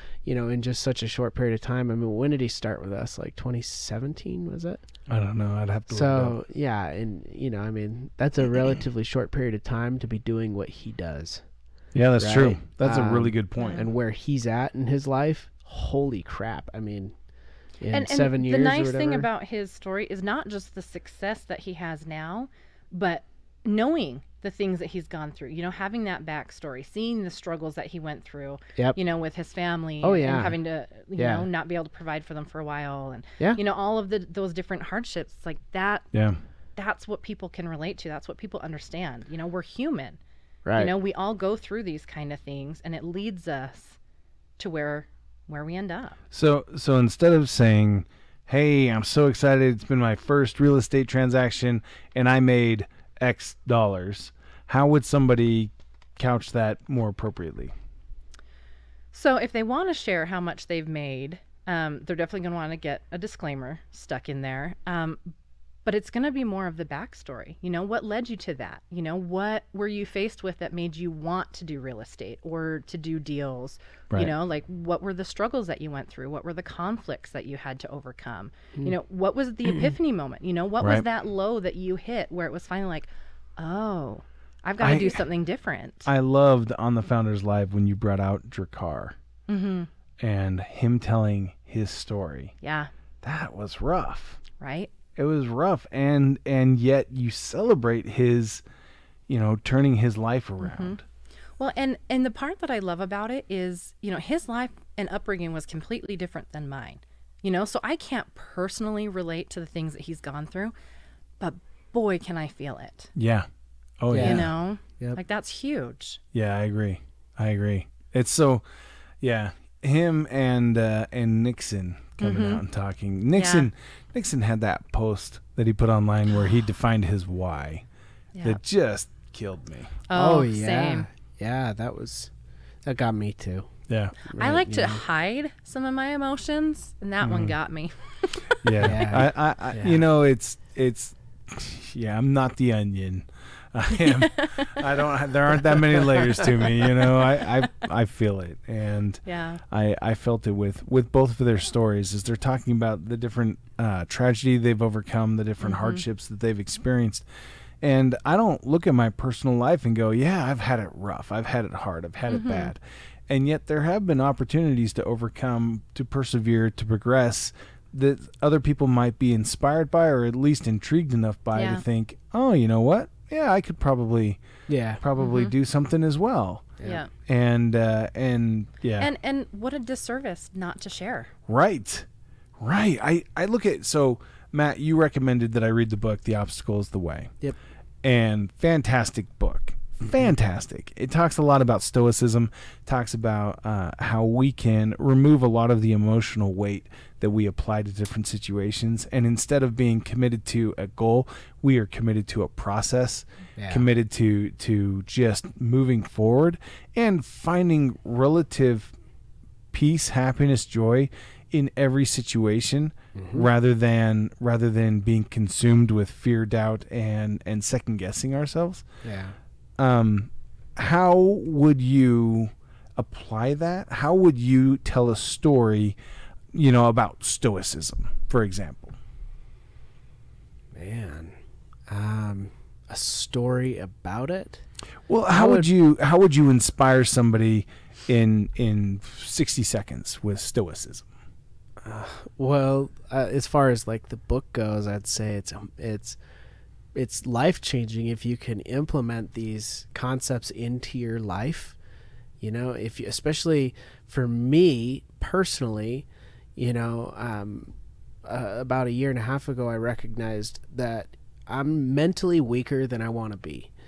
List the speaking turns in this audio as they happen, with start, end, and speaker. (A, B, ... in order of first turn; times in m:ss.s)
0:00.2-0:04.8 A
0:05.1-0:06.4 B
0:05.9-0:11.4 A
0:11.9-0:13.8 B
0:12.2-0:17.1 A
0:13.6-0:13.8 C
0:17.8-0:19.3 A
0:17.9-0:36.1 C
0:30.0-0:30.6 A
0:31.2-0:31.4 A
0:36.1-0:36.4 B
0:36.8-0:40.2 C
0:40.6-0:40.9 A
0:40.7-0:44.0 C
0:44.6-0:46.2 C
0:46.3-0:57.7 B
0:59.1-1:05.2 C
1:05.8-1:26.1 C
1:24.8-1:25.2 B
1:26.0-1:29.2 B
1:29.5-1:29.9 C
1:30.2-1:32.5 B
1:32.6-1:32.9 C
1:33.2-1:34.4 B
1:34.6-1:34.9 C
1:35.2-1:38.6 B
1:39.3-1:41.0 B
1:40.6-1:41.0 C
1:41.6-1:50.7 C
1:51.4-1:53.1 C
1:53.2-1:53.4 B
1:54.0-1:54.5 B
1:54.1-1:54.5 A
1:54.2-1:56.2 C
1:56.3-1:58.6 B
1:59.2-2:07.8 B
2:02.2-2:02.6 C
2:03.4-2:03.7 C
2:08.4-2:09.9 B
2:10.1-2:11.0 C
2:10.1-2:12.3 A
2:12.8-2:13.7 A
2:13.9-2:14.1 B
2:14.3-2:15.0 A
2:14.4-2:18.6 C
2:17.2-2:17.6 B
2:18.6-2:37.2 B
2:18.8-2:20.0 A
2:24.0-2:24.8 C
2:26.3-2:27.2 C
2:29.2-2:29.6 C
2:35.6-2:36.0 C
2:37.8-2:54.4 B
2:42.3-2:42.7 C
2:51.5-2:51.8 C
2:54.7-2:55.0 A
2:55.0-2:59.1 B
2:55.2-2:55.5 C
2:56.8-2:57.1 C
2:59.0-3:01.3 C
3:01.5-3:02.1 B
3:02.6-3:07.3 B
3:08.0-3:28.9 B
3:23.6-3:23.8 A
3:29.7-3:38.8 B
3:33.1-3:33.5 A
3:39.0-3:39.4 A
3:39.8-3:46.0 B
3:46.5-3:49.0 B
3:50.7-3:51.3 A
3:51.9-3:54.6 A
3:55.1-4:01.0 B
3:55.3-3:55.7 A
4:01.8-4:06.2 A
4:06.9-4:11.8 A
4:12.4-4:23.7 A